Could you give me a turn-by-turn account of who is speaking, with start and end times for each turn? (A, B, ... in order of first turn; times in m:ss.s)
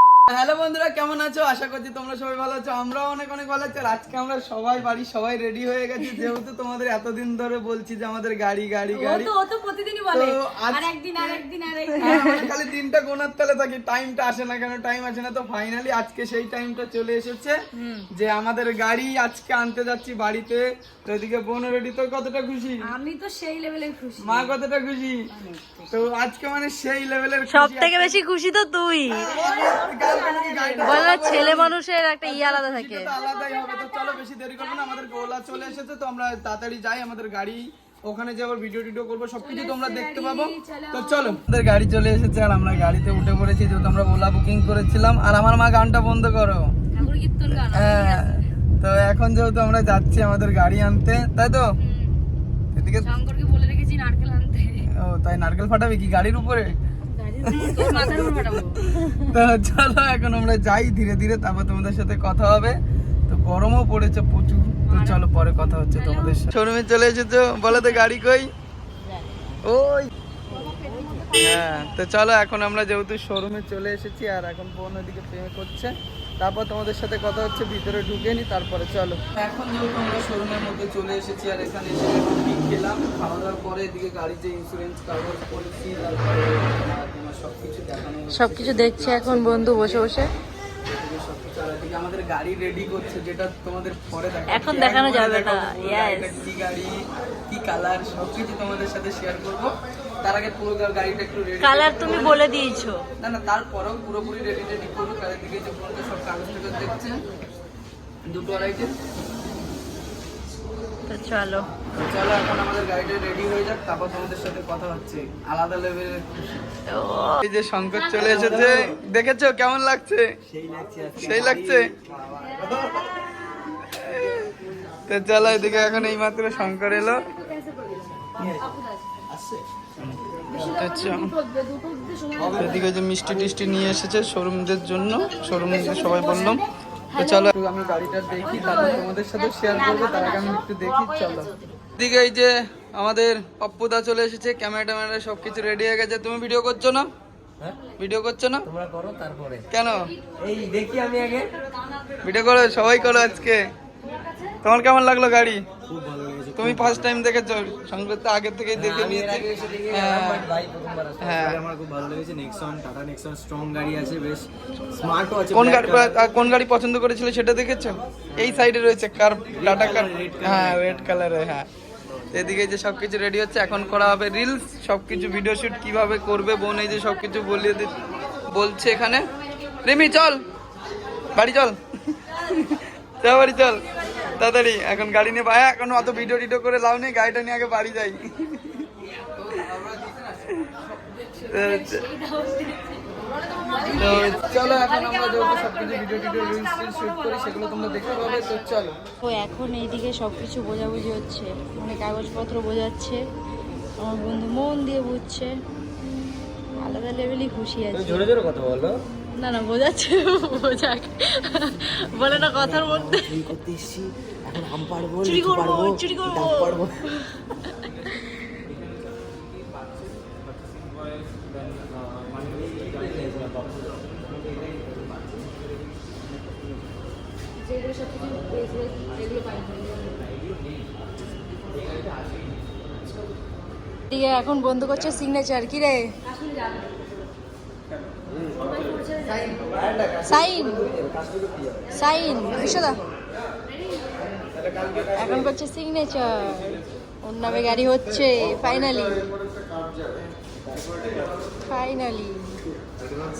0:00.3-0:09.3 A
0:08.9-0:12.3 B
0:10.1-0:17.6 A
0:12.0-0:12.5 C
0:17.7-0:18.1 C
0:18.1-0:22.8 A
0:23.0-0:24.5 B
0:24.2-0:25.3 A
0:25.9-0:28.2 A
0:27.5-0:29.4 C
0:29.1-0:31.7 A
0:29.3-0:31.5 B
0:30.8-0:33.1 C
0:32.2-0:46.7 A
0:33.2-0:35.4 B
0:39.4-0:41.4 B
0:47.0-0:48.2 B
0:47.5-0:51.7 A
0:51.8-0:52.2 B
0:52.8-0:53.2 A
0:53.0-0:54.8 B
0:54.9-0:56.8 A
0:57.2-0:58.8 B
0:57.4-0:58.4 A
0:57.6-0:58.1 C
0:59.2-1:08.5 A
1:04.9-1:05.2 B
1:05.7-1:06.4 B
1:09.6-1:10.1 A
1:10.5-1:11.2 C
1:10.5-1:11.9 B
1:11.4-1:30.0 A
1:28.3-1:30.3 C
1:30.9-1:42.4 A
1:34.5-1:36.4 C
1:41.6-1:43.0 C
1:43.2-1:47.2 A
1:48.2-1:49.0 A
1:51.1-1:51.7 C
1:51.9-1:56.3 A
1:56.9-1:57.4 C
1:57.4-2:00.3 A
1:58.2-1:58.9 D
2:00.5-2:03.1 D
2:01.2-2:01.9 A
2:02.6-2:03.2 B
2:03.8-2:04.5 A
2:05.1-2:07.4 A
2:06.7-2:09.0 B
2:08.3-2:08.8 D
2:09.3-2:09.6 D
2:10.0-2:11.4 A
2:10.5-2:12.6 B
2:12.4-2:12.9 D
2:12.4-2:27.1 A
2:15.5-2:16.7 B
2:17.2-2:17.5 C
2:18.4-2:21.8 B
2:28.0-2:28.7 A
2:28.7-2:29.7 D
2:29.7-2:30.1 A
2:30.4-2:31.5 D
2:32.2-2:33.7 A
2:34.6-2:35.6 A
2:35.9-2:37.1 D
2:36.6-2:40.5 A
2:38.8-2:46.1 D
2:41.2-2:41.7 A
2:45.5-2:51.7 A
2:48.4-2:48.7 D
2:49.6-2:50.9 D
2:52.3-2:59.3 A
2:59.8-3:00.4 A
3:01.4-3:10.7 A
3:11.2-3:18.6 B
3:11.4-3:12.1 A
3:13.7-3:14.5 C
3:13.9-3:19.0 A
3:19.2-3:23.2 C
3:24.0-3:25.6 C
3:26.8-3:28.3 C
3:27.9-3:29.0 D
3:29.4-3:33.5 C
3:32.3-3:37.0 D
3:35.2-3:37.7 C
3:42.3-3:45.2 D
3:47.6-3:50.3 B
3:54.1-3:56.1 C
3:56.3-3:56.8 B
3:58.6-3:59.8 B
4:00.3-4:00.9 C
4:02.0-4:03.0 C
4:05.2-4:09.3 C
4:11.7-4:12.5 C